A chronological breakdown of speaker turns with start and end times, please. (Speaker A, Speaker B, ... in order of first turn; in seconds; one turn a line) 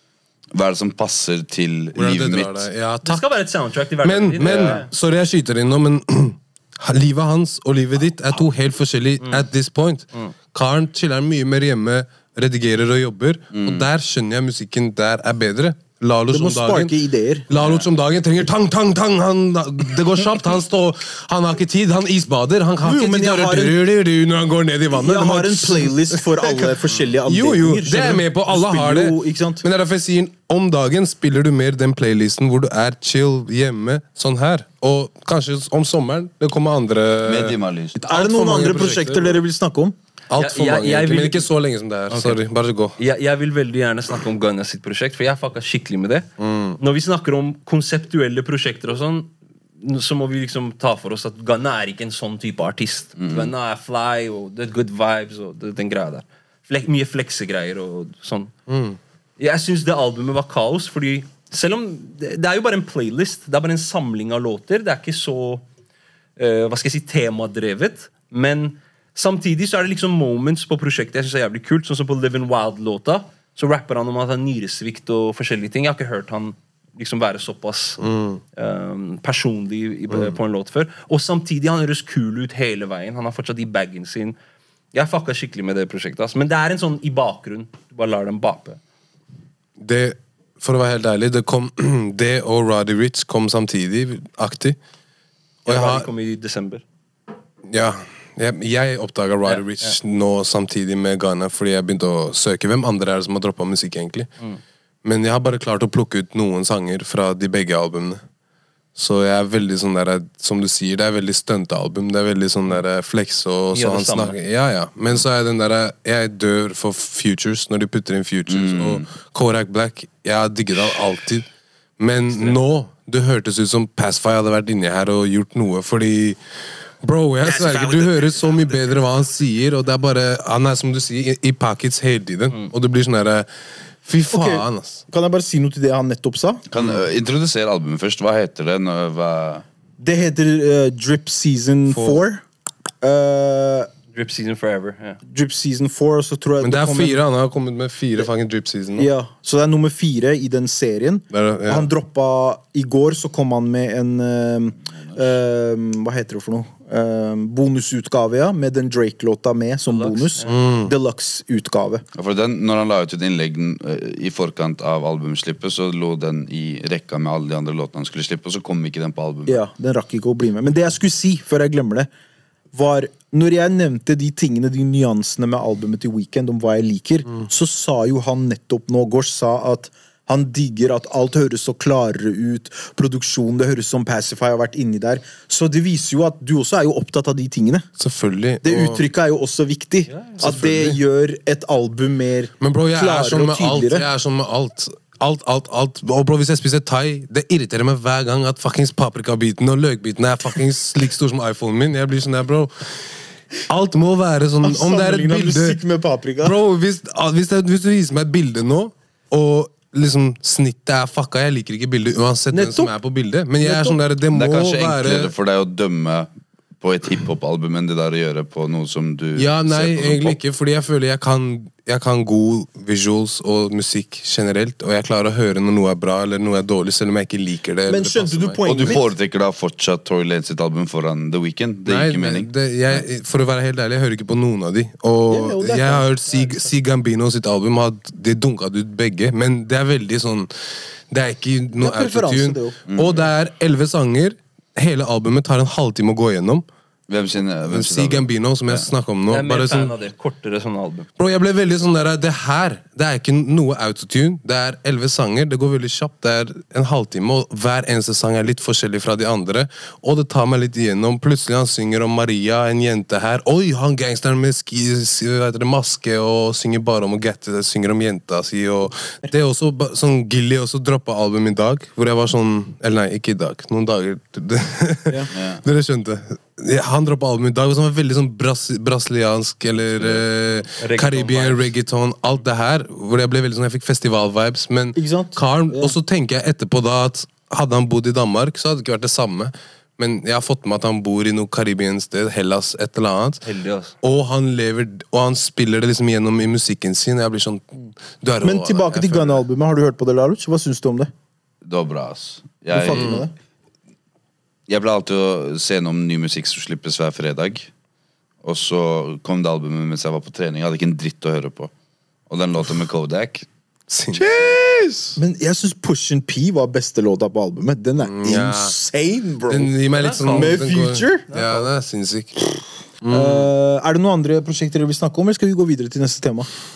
Speaker A: 0.5-2.7
Speaker B: 1.9-3.2
Speaker C: 3.0-4.8
Speaker B: 4.0-16.9
Speaker C: 9.2-9.5
Speaker A: 13.5-13.9
Speaker D: 16.3-17.5
Speaker B: 17.5-39.4
Speaker A: 17.5-17.9
Speaker D: 22.8-23.8
Speaker D: 24.9-29.6
Speaker A: 37.2-38.0
Speaker D: 38.0-40.0
Speaker B: 40.3-43.0
Speaker C: 40.4-41.5
Speaker C: 42.1-42.4
Speaker C: 43.0-46.3
Speaker B: 46.4-46.8
Speaker C: 46.8-58.5
Speaker A: 53.2-53.5
Speaker B: 58.7-59.0
Speaker C: 59.4-65.6
Speaker C: 66.4-78.0
Speaker B: 78.0-78.4
Speaker C: 78.6-84.4
Speaker C: 84.9-88.8
Speaker B: 89.8-94.8
Speaker B: 95.7-96.1
Speaker C: 95.7-96.8
Speaker B: 97.7-104.3
Speaker C: 99.4-100.0
Speaker B: 105.0-108.2
Speaker B: 109.0-126.4
Speaker C: 113.7-114.4
Speaker A: 118.5-119.0
Speaker B: 127.0-133.5
Speaker B: 134.0-135.0
Speaker D: 134.3-136.6
Speaker A: 136.7-139.6
Speaker D: 140.0-142.4
Speaker B: 141.9-142.2
Speaker D: 143.0-143.9
Speaker C: 144.1-145.2
Speaker D: 145.3-147.2
Speaker B: 146.6-149.1
Speaker D: 149.0-162.1
Speaker B: 151.3-151.9
Speaker C: 159.9-160.5
Speaker B: 160.4-160.9
Speaker A: 162.2-169.6
Speaker D: 169.5-172.1
Speaker D: 172.7-187.9
Speaker B: 188.0-189.0
Speaker D: 188.6-194.1
Speaker C: 190.1-190.5
Speaker B: 190.4-191.0
Speaker B: 192.6-203.2
Speaker B: 203.7-205.8
Speaker D: 204.6-206.6
Speaker B: 206.4-215.3
Speaker C: 212.5-212.9
Speaker C: 213.7-213.9
Speaker A: 214.3-216.3
Speaker A: 216.8-220.4
Speaker B: 219.4-228.9
Speaker D: 227.9-229.1
Speaker A: 228.6-233.0
Speaker B: 231.9-240.5
Speaker D: 235.3-236.7
Speaker B: 241.1-246.7
Speaker D: 241.7-242.8
Speaker A: 242.9-243.3
Speaker A: 247.1-248.9
Speaker B: 247.7-249.9
Speaker C: 249.3-251.1
Speaker B: 251.2-293.4
Speaker A: 275.3-275.6
Speaker A: 280.0-280.2
Speaker C: 280.8-281.7
Speaker D: 284.9-286.0
Speaker C: 293.4-293.9
Speaker B: 294.0-299.4
Speaker D: 298.4-301.1
Speaker A: 301.6-303.1
Speaker D: 302.7-303.3
Speaker B: 302.9-303.2
Speaker A: 304.7-307.7
Speaker A: 308.4-311.7
Speaker A: 312.3-313.5
Speaker B: 313.9-315.1
Speaker D: 315.2-321.3
Speaker B: 318.1-318.7
Speaker B: 319.5-323.5
Speaker C: 320.0-320.7
Speaker C: 321.3-321.7
Speaker D: 323.1-326.5